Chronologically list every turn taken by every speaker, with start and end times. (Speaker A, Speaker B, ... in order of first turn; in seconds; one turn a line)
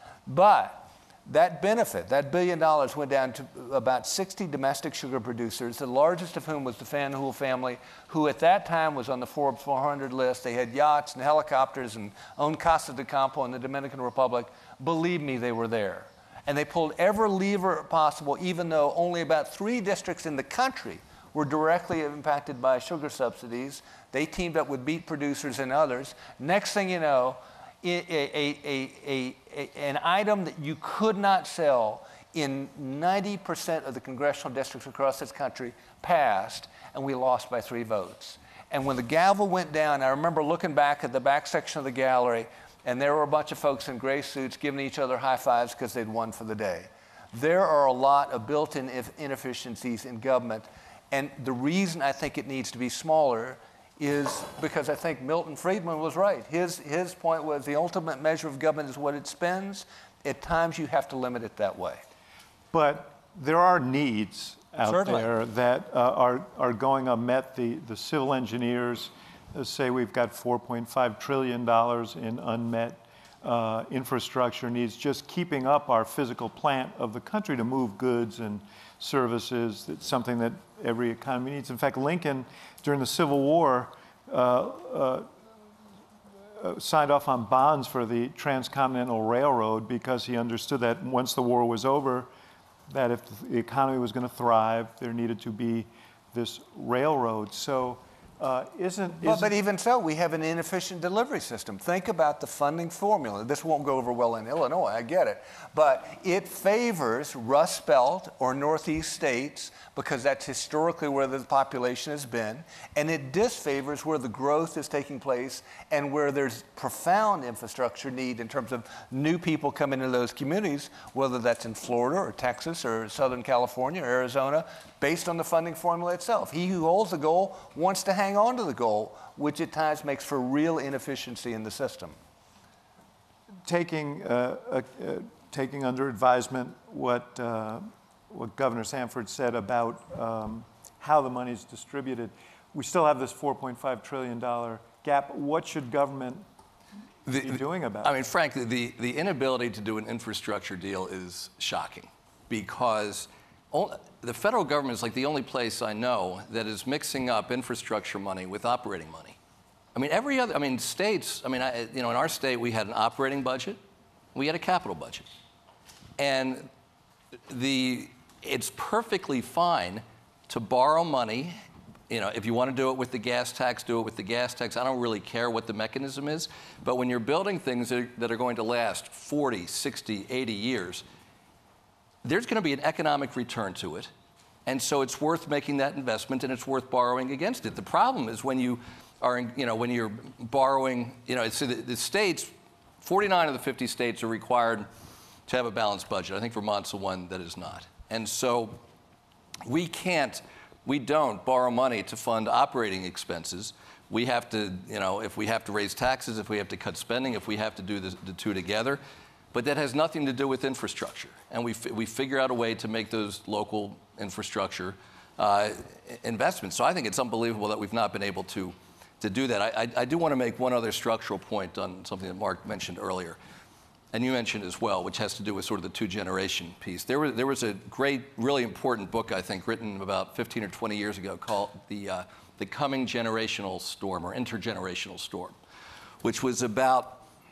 Speaker A: 0.3-62.0
Speaker B: 62.7-85.3
Speaker A: 64.9-65.3
Speaker B: 86.6-92.3
Speaker B: 92.9-99.5
Speaker A: 99.2-132.2
Speaker B: 133.7-146.4
Speaker C: 147.3-159.4
Speaker B: 147.4-148.1
Speaker C: 159.9-163.8
Speaker C: 164.3-165.3
Speaker C: 166.2-166.7
Speaker C: 167.5-171.6
Speaker C: 172.1-181.0
Speaker C: 182.2-184.1
Speaker C: 184.7-194.9
Speaker C: 195.5-198.8
Speaker C: 199.7-209.0
Speaker C: 209.5-223.4
Speaker C: 224.1-235.6
Speaker C: 236.2-237.2